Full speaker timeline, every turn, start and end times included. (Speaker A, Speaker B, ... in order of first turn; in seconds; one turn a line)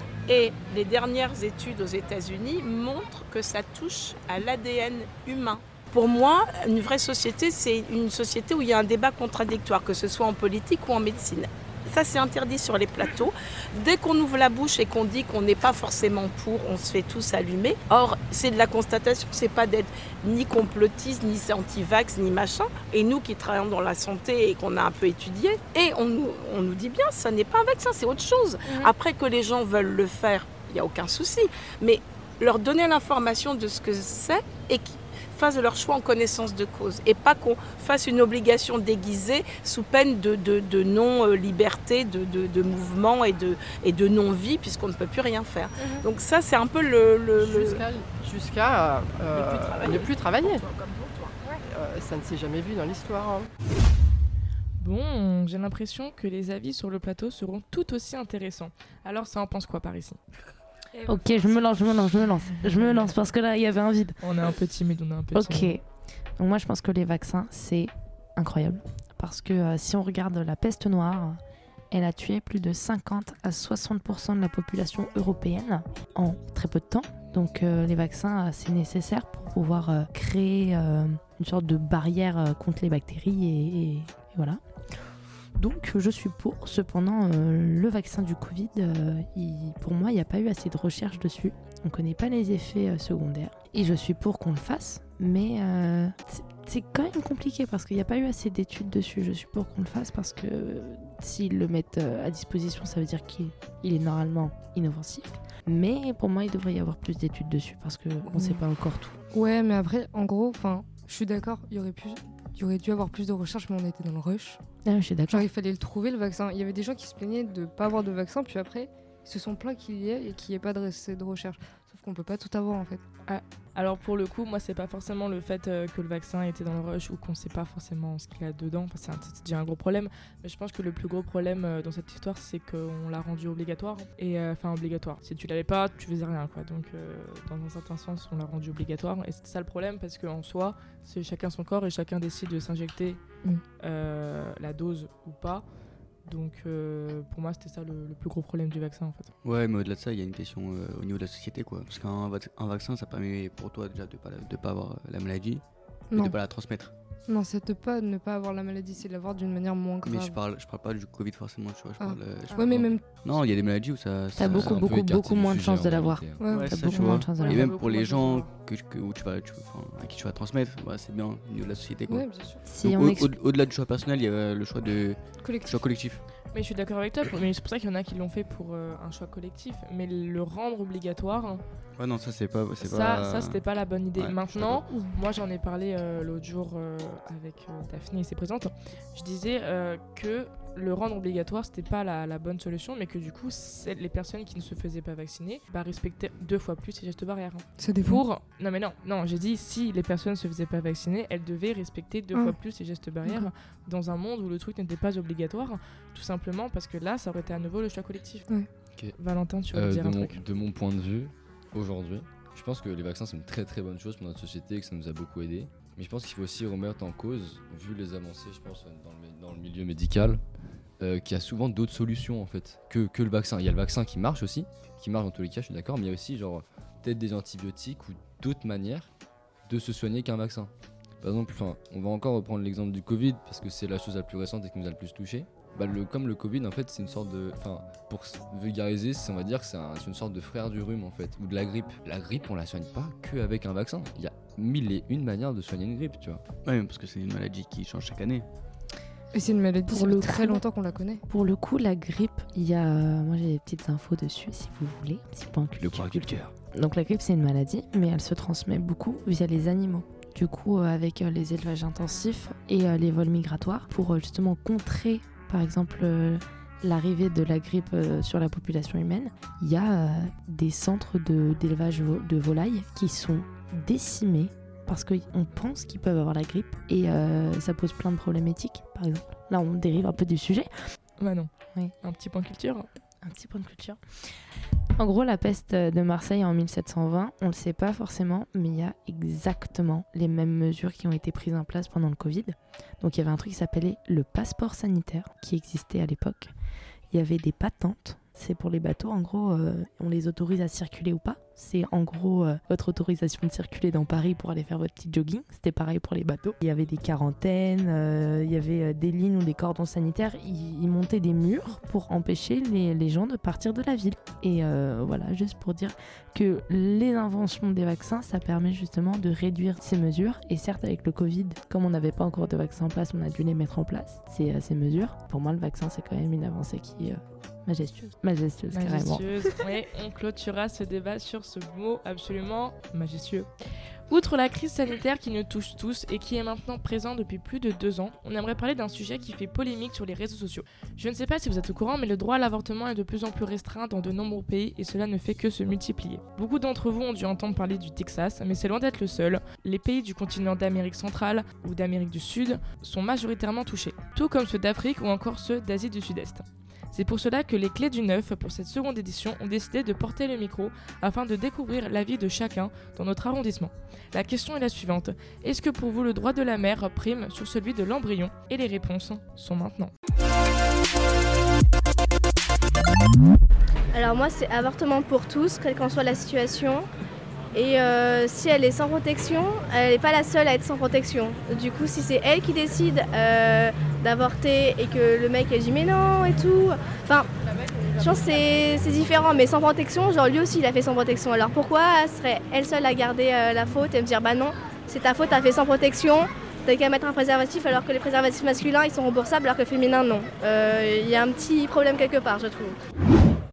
Speaker A: 0.3-47.8
Speaker B: 47.4-50.6
Speaker A: 49.3-51.4
Speaker B: 51.5-53.5
Speaker C: 54.8-60.2
Speaker D: 61.0-64.2
Speaker C: 64.2-65.7
Speaker D: 65.3-65.8
Speaker D: 66.4-71.4
Speaker D: 71.9-84.6
Speaker D: 85.5-109.2
Speaker E: 108.3-108.6
Speaker E: 109.3-114.6
Speaker D: 114.8-115.5
Speaker E: 115.3-123.0
Speaker C: 123.3-143.2
Speaker C: 143.8-145.6
Speaker C: 146.2-149.3
Speaker F: 149.4-156.9
Speaker E: 156.1-156.4
Speaker E: 157.3-160.4
Speaker F: 160.0-164.9
Speaker E: 162.0-163.2
Speaker D: 164.4-167.8
Speaker G: 164.5-166.5
Speaker E: 166.4-168.5
Speaker F: 166.5-176.2
Speaker E: 172.1-172.6
Speaker D: 172.7-173.3
Speaker E: 175.4-175.8
Speaker C: 176.5-181.6
Speaker F: 181.9-183.6
Speaker C: 182.8-208.5
Speaker F: 184.2-184.8
Speaker E: 197.8-198.2
Speaker C: 209.1-210.4
Speaker G: 209.7-220.4
Speaker G: 221.0-229.1
Speaker G: 229.7-246.4
Speaker F: 246.6-248.4
Speaker E: 249.3-251.2
Speaker D: 249.9-250.6
Speaker D: 251.3-280.7
Speaker G: 255.8-256.5
Speaker C: 281.2-281.5
Speaker C: 282.0-282.9
Speaker D: 283.2-284.3
Speaker D: 285.0-296.5
Speaker D: 297.1-329.2
Speaker C: 328.7-333.5
Speaker C: 334.1-369.9
Speaker H: 373.9-376.9
Speaker H: 377.5-387.3
Speaker H: 387.9-402.8